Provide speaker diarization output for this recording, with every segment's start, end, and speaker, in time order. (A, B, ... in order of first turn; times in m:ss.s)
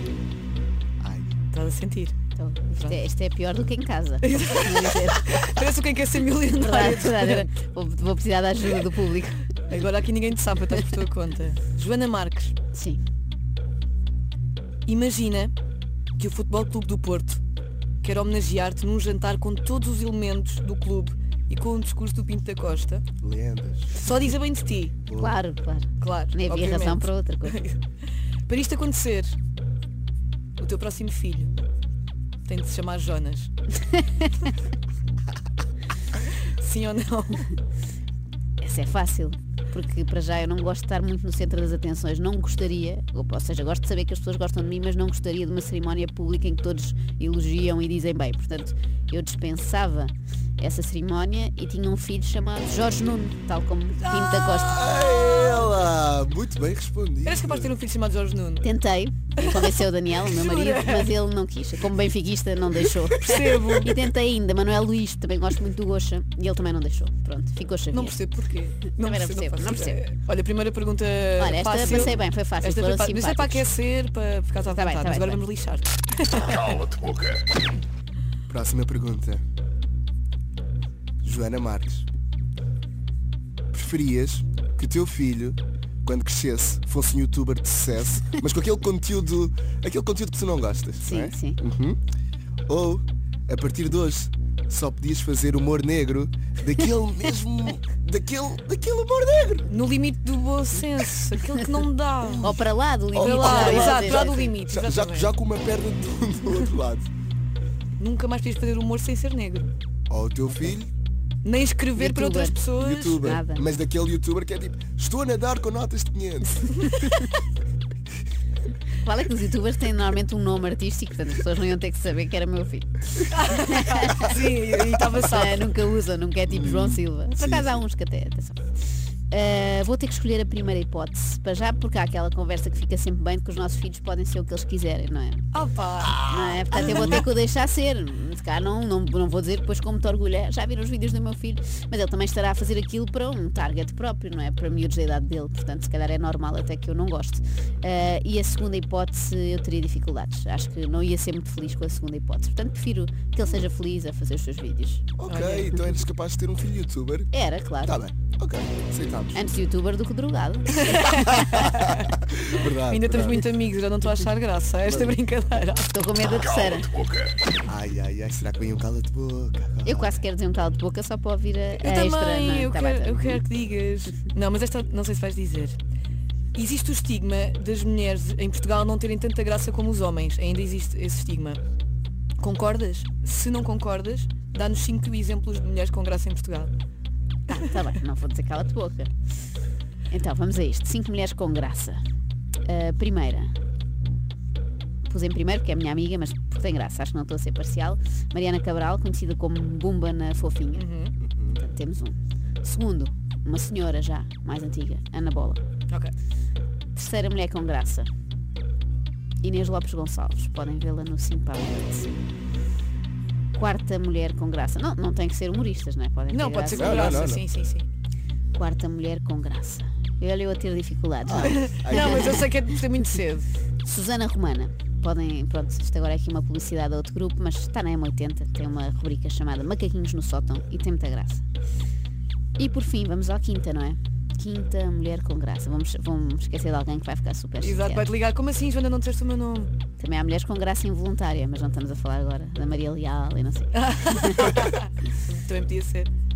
0:01.0-0:01.3 A
0:01.5-0:02.2 B
0:02.4-0:05.4 C
0:04.2-0:07.5 B
0:06.5-0:09.6 C
0:09.7-0:12.6 B
0:12.7-0:13.0 C
0:14.9-0:15.5 B
0:16.2-0:17.4 B
0:18.0-0:23.0 B
0:23.2-0:24.0 A
0:23.9-0:25.0 B
0:25.1-0:25.4 A
0:25.2-0:27.6 C
0:26.0-0:27.8 B
0:28.5-0:29.4 B
0:30.6-0:31.5 B
0:32.5-0:33.5 B
0:33.8-0:34.5 C
0:36.2-0:37.5 B
0:38.6-0:54.8 C
0:54.4-0:57.7 A
0:57.2-0:58.7 B
0:58.6-1:08.2 C
0:59.4-1:01.2 B
1:02.9-1:04.0 B
1:07.9-1:16.8 B
1:08.9-1:10.0 C
1:11.4-1:13.7 C
1:14.6-1:15.4 C
1:16.4-1:17.5 D
1:18.5-1:19.4 A
1:21.2-1:22.1 A
1:23.7-1:32.0 A
1:31.0-1:31.6 C
1:32.7-1:39.7 A
1:39.7-1:42.5 B
1:42.2-1:47.1 A
1:42.4-1:44.3 C
1:43.2-1:45.3 B
1:48.0-1:49.7 B
1:50.1-1:50.9 A
1:51.4-1:53.3 B
1:52.0-1:52.6 C
1:52.8-1:56.7 A
1:53.2-1:53.7 C
1:56.8-1:57.2 C
1:59.0-2:04.4 C
2:03.3-2:05.8 B
2:05.0-2:08.7 C
2:06.5-2:07.8 A
2:09.3-2:15.4 C
2:15.5-2:17.2 B
2:16.2-2:35.1 C
2:35.2-2:37.3 A
2:35.3-2:35.8 B
2:37.3-2:38.0 C
2:37.8-2:39.4 A
2:39.3-2:41.6 C
2:40.7-2:45.9 B
2:41.1-2:43.5 A
2:44.9-2:45.2 A
2:45.9-2:47.0 C
2:46.4-2:47.4 D
2:47.7-2:50.2 A
2:49.8-2:53.4 C
2:51.7-2:55.8 B
2:56.6-3:01.6 B
3:02.4-3:06.7 B
3:07.5-3:09.1 C
3:10.1-3:12.0 C
3:12.7-3:13.5 C
3:15.1-3:20.9 C
3:20.8-3:21.1 B
3:21.2-3:21.6 A
3:21.5-3:25.6 C
3:26.9-3:28.1 C
3:29.4-3:32.2 C
3:33.5-3:37.3 C
3:36.3-3:37.9 B
3:36.7-3:37.4 A
3:38.5-3:42.5 C
3:41.3-3:42.5 A
3:41.4-3:43.5 B
3:43.8-3:51.4 C
3:52.6-3:58.0 C
3:57.6-3:59.7 B
4:00.0-4:04.7 C
4:03.8-4:06.1 B